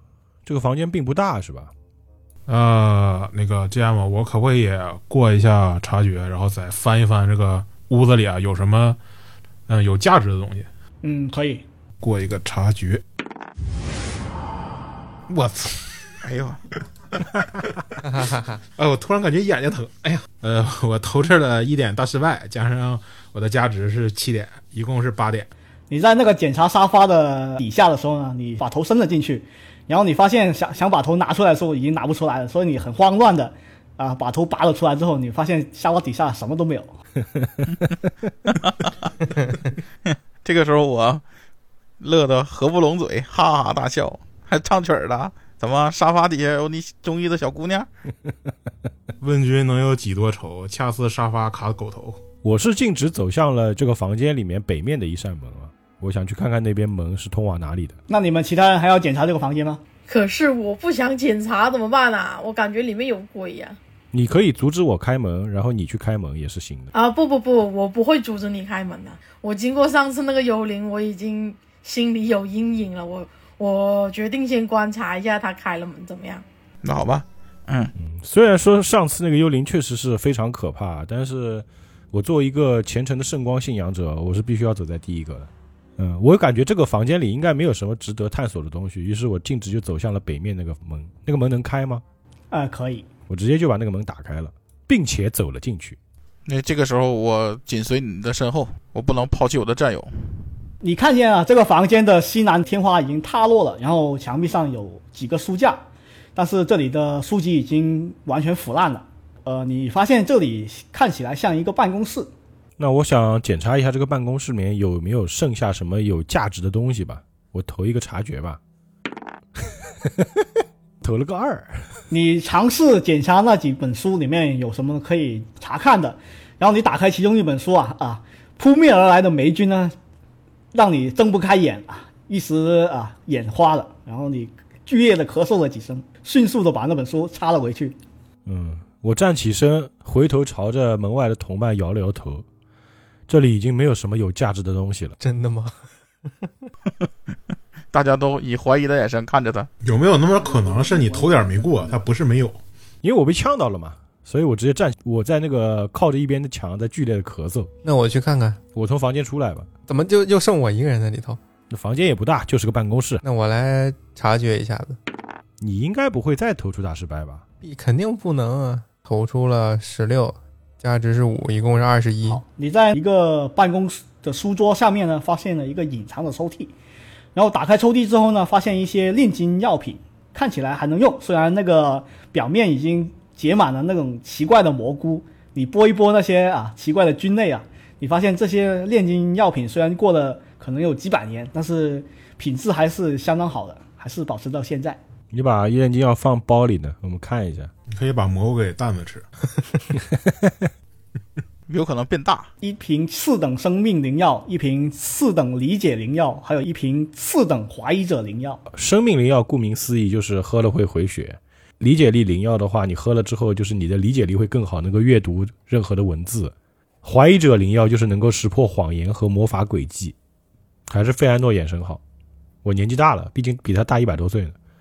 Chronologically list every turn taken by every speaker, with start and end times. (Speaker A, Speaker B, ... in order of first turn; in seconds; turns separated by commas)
Speaker A: 0.5-1.7, Speaker B: 2.5-9.0, Speaker B: 9.7-10.7, Speaker C: 11.0-11.6, Speaker B: 12.0-13.0, Speaker B: 15.3-16.0, Speaker D: 16.2-16.6, Speaker B: 18.8-25.5, Speaker C: 25.9-36.9, Speaker D: 38.5-38.9, Speaker D: 40.0-41.2, Speaker D: 42.0-47.9, Speaker B: 49.2-52.2, Speaker A: 52.4-58.0, Speaker C: 58.1-59.8, Speaker E: 60.1-63.8, Speaker A: 64.1-66.9, Speaker E: 66.9-76.4, Speaker D: 76.8-77.9, Speaker A: 78.0-92.0, Speaker C: 92.5-93.0, Speaker A: 93.3-96.0, Speaker D: 96.5-100.1, Speaker C: 100.8-105.8, Speaker C: 106.3-112.3, Speaker A: 112.8-118.6, Speaker A: 119.6-121.9, Speaker C: 122.1-129.9, Speaker C: 130.7-138.0, Speaker A: 138.4-142.4, Speaker A: 143.3-145.2, Speaker F: 145.2-145.8, Speaker D: 147.9-149.7, Speaker B: 149.8-152.6, Speaker A: 153.0-157.7, Speaker F: 157.8-158.6, Speaker A: 158.7-159.7, Speaker F: 159.9-161.4, Speaker A: 161.7-163.2, Speaker F: 163.2-165.0, Speaker A: 165.6-167.4, Speaker F: 167.6-172.4, Speaker C: 172.3-176.7, Speaker C: 177.3-195.0, Speaker A: 195.3-197.7, Speaker B: 197.9-199.2, Speaker A: 200.1-200.7, Speaker D: 201.7-202.5, Speaker C: 202.6-208.6, Speaker A: 208.7-220.1, Speaker A: 220.9-222.0, Speaker A: 222.6-224.6